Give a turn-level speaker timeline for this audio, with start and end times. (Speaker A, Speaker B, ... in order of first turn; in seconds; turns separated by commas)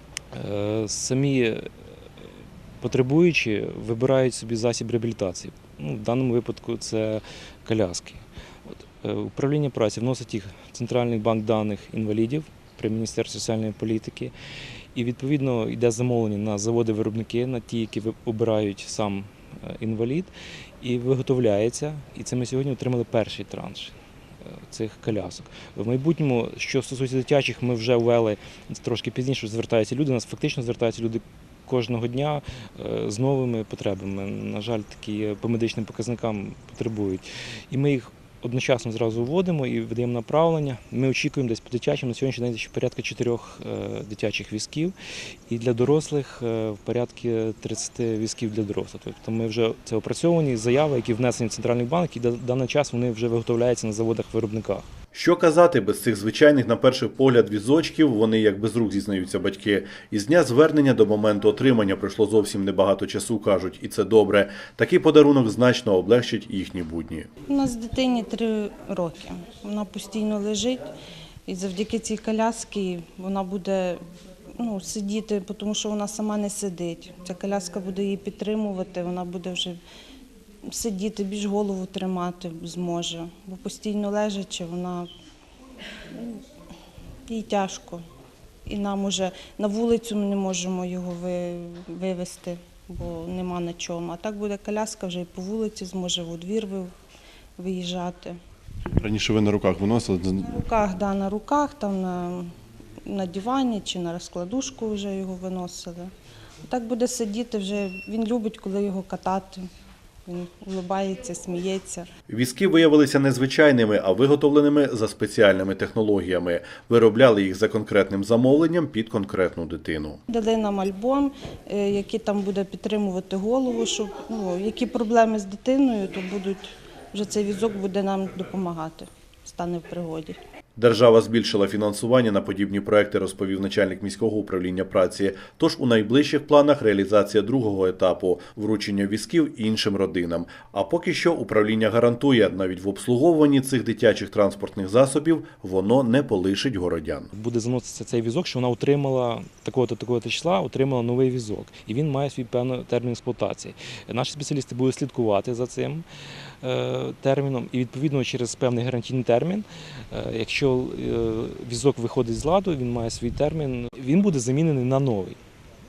Speaker A: 0.3-1.7, Speaker A: 2.8-8.2, Speaker A: 9.0-14.3, Speaker A: 14.9-23.9, Speaker A: 24.5-44.9, Speaker A: 45.5-54.9, Speaker B: 55.1-67.3, Speaker C: 67.5-70.8, Speaker C: 71.5-74.0, Speaker C: 74.6-79.8, Speaker C: 80.7-85.1, Speaker C: 87.3-88.0, Speaker C: 88.7-96.9, Speaker C: 97.6-98.4, Speaker B: 98.8-100.6, Speaker C: 100.4-102.5, Speaker C: 103.0-106.1, Speaker C: 106.6-109.7, Speaker C: 110.2-112.1, Speaker B: 112.3-120.2, Speaker C: 120.3-130.4, Speaker B: 130.8-147.3, Speaker A: 147.3-156.0, Speaker A: 156.6-165.4